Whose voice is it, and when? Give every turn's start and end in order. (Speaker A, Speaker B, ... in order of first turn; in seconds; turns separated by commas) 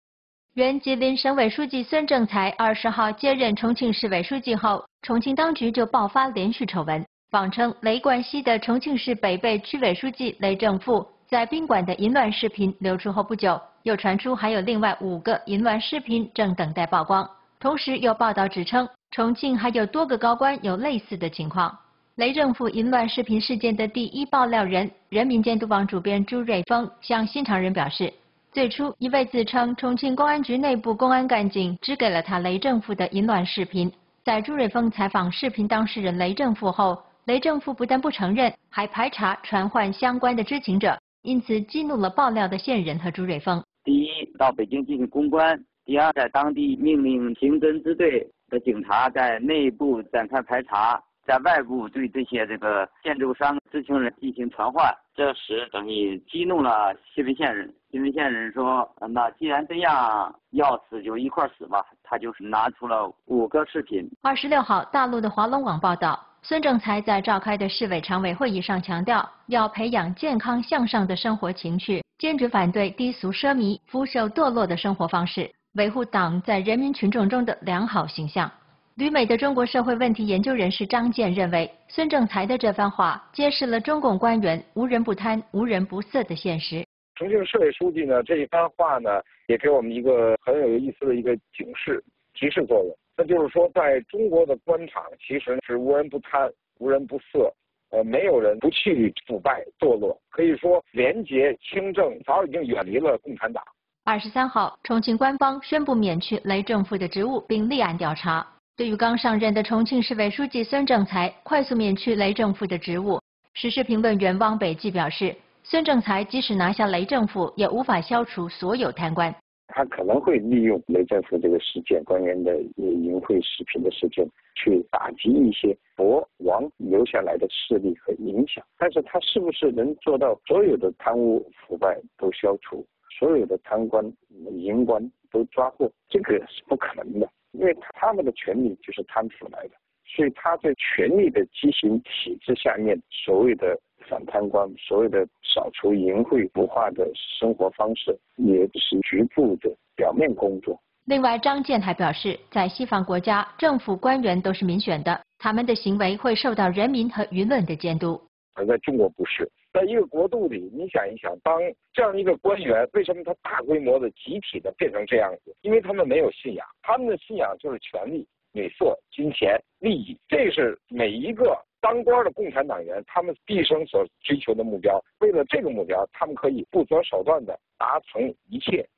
Speaker A: 0.5-43.6, Speaker B: 43.8-64.1, Speaker A: 64.2-86.8, Speaker C: 87.2-103.7, Speaker A: 104.0-119.3, Speaker D: 119.7-150.8, Speaker A: 151.1-158.2, Speaker C: 158.6-178.9